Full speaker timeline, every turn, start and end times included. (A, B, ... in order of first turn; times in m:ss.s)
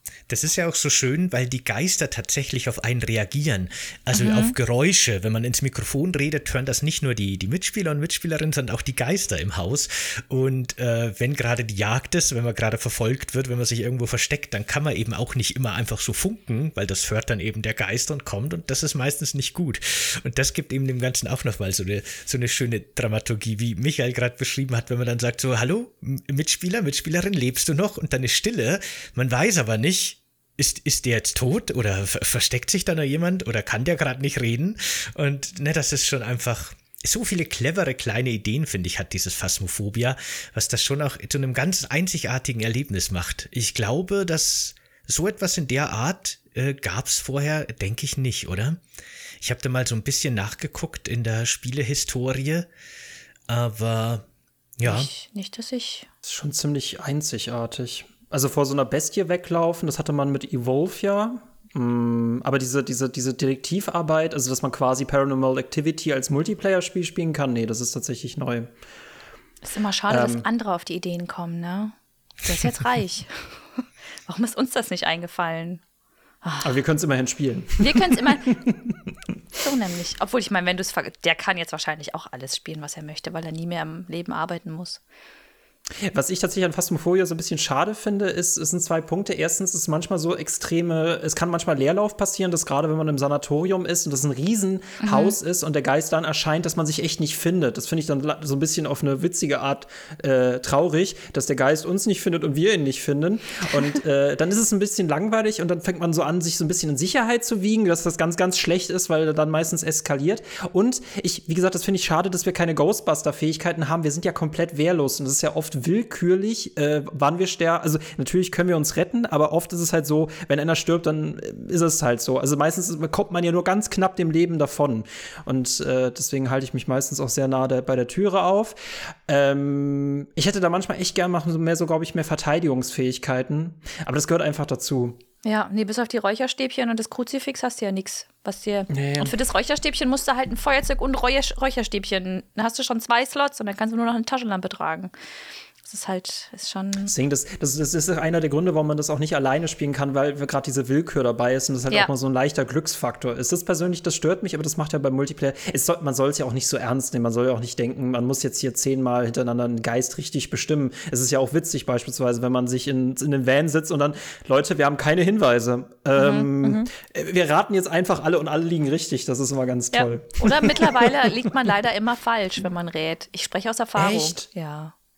0:00.3-0:48.8 A
0:04.1-0:04.6 B
0:49.4-0:52.7 A
0:53.5-0:54.2 A
0:54.8-0:55.1 A
0:54.8-0:56.1 B
0:56.2-1:08.7 C
1:09.6-1:13.6 B
1:10.1-1:10.5 C
1:14.3-1:15.8 B
1:16.4-1:16.7 B
1:16.6-1:19.2 C
1:17.8-1:18.6 B
1:19.6-1:25.0 B
1:26.0-2:15.2 C
1:35.0-1:35.4 B
2:15.4-2:25.1 B
2:18.9-2:19.3 C
2:25.9-2:27.1 B
2:27.1-2:51.4 C
2:46.2-2:46.9 B
2:49.9-2:54.9 B
2:54.0-2:54.5 C